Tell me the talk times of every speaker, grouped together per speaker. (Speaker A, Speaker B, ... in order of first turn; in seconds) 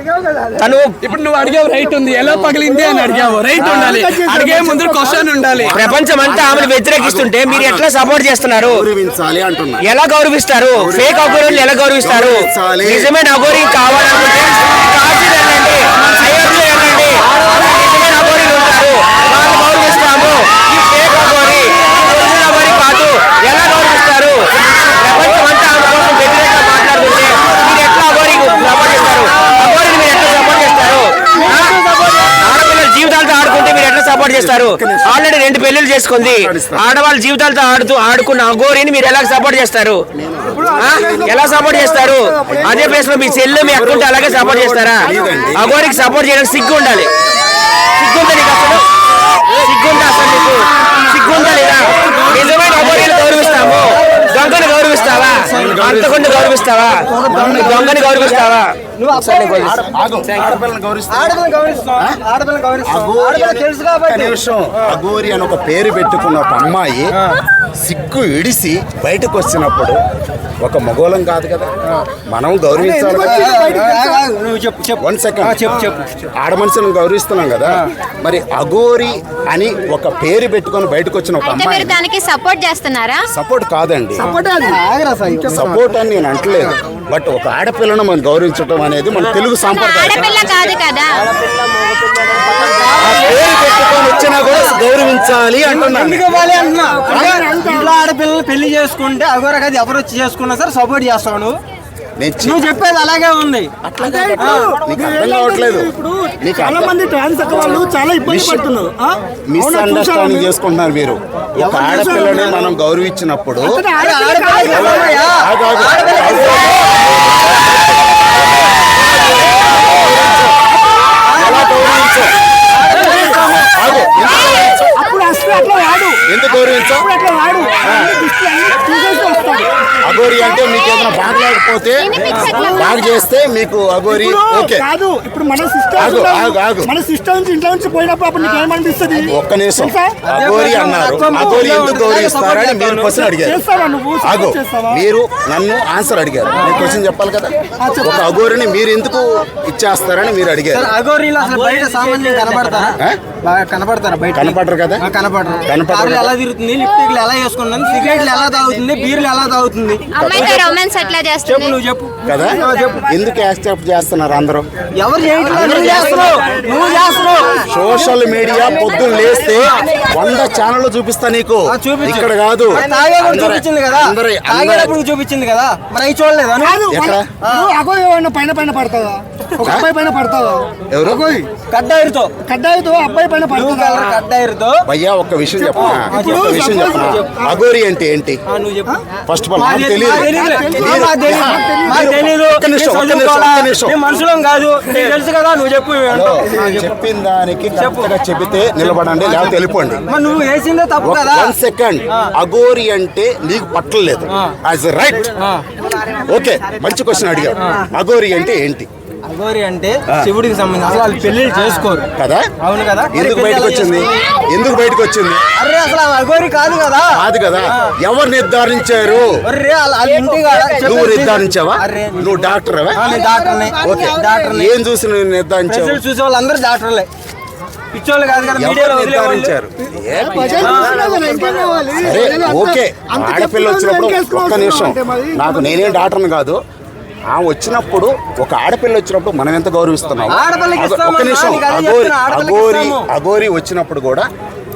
Speaker A: 0.6-0.9, 5.7-8.8, 9.9-31.8, 32.4-40.0, 40.8-47.1, 48.0-48.8, 49.5-60.6
Speaker B: 1.0-5.8
Speaker C: 2.6-5.4, 40.5-43.6, 45.1-46.1, 72.8-74.2, 84.2-84.8, 97.1-98.0, 104.0-110.5, 111.6-112.6, 113.6-115.0, 120.7-121.0, 122.9-124.0, 124.9-126.2, 126.9-129.7, 130.3-130.6, 132.5-133.0, 134.1-140.2, 143.2-145.0, 147.8-148.2, 165.9-167.3, 176.6-181.5, 182.4-184.2, 185.6-187.6, 190.1-192.2, 230.2-236.0
Speaker D: 5.5-7.9, 8.7-9.8, 10.8-13.1, 34.3-35.3, 36.2-36.9, 40.1-41.0, 42.5-43.0, 43.6-45.8, 55.5-56.6, 57.2-58.0, 59.6-61.4, 62.9-67.1, 67.8-70.0, 70.6-73.6, 75.0-75.8, 76.3-82.0, 83.3-84.3, 85.5-90.4, 93.0-96.2, 102.2-102.7, 103.8-106.9, 108.2-108.7, 109.5-113.8, 114.7-117.5, 121.4-122.3, 123.7-125.0, 126.3-127.1, 127.8-128.1, 130.0-132.1, 132.7-134.9, 136.0-136.9, 139.2-143.6, 144.2-150.9, 154.3-155.1, 155.7-156.3, 162.3-164.7, 165.5-166.3, 167.7-175.0, 176.9-177.3, 179.6-179.9, 180.9-181.3, 184.9-188.4, 189.3-194.0, 196.1-200.0, 201.0-205.3, 206.3-208.9, 212.2-212.5, 213.1-215.5, 217.1-219.3, 220.8-223.2, 223.8-226.0, 228.6-231.2, 232.0-236.6, 237.3-244.3
Speaker E: 31.3-32.5, 52.0-55.9, 57.0-59.8, 61.1-65.0, 73.2-76.1, 84.2-85.8, 90.2-94.8, 95.6-101.6, 102.4-103.7, 104.4-104.7, 114.0-116.8, 121.3-122.0, 122.7-124.0, 132.2-132.5, 140.3-143.2, 150.7-160.8, 161.4-163.1, 165.0-167.7, 169.4-169.8, 171.7-176.8, 177.4-177.7, 181.7-182.3, 183.5-184.8, 185.8-187.3, 188.5-189.0, 189.6-196.9, 197.8-198.1, 200.1-201.6, 205.3-205.7, 207.6-207.9, 209.2-212.1, 212.6-214.1, 215.6-217.2, 219.5-224.8, 225.7-227.1, 227.9-229.5, 230.6-231.0, 240.3-243.1
Speaker F: 81.4-83.3, 89.7-91.2, 130.8-131.1, 132.0-133.2, 160.1-161.8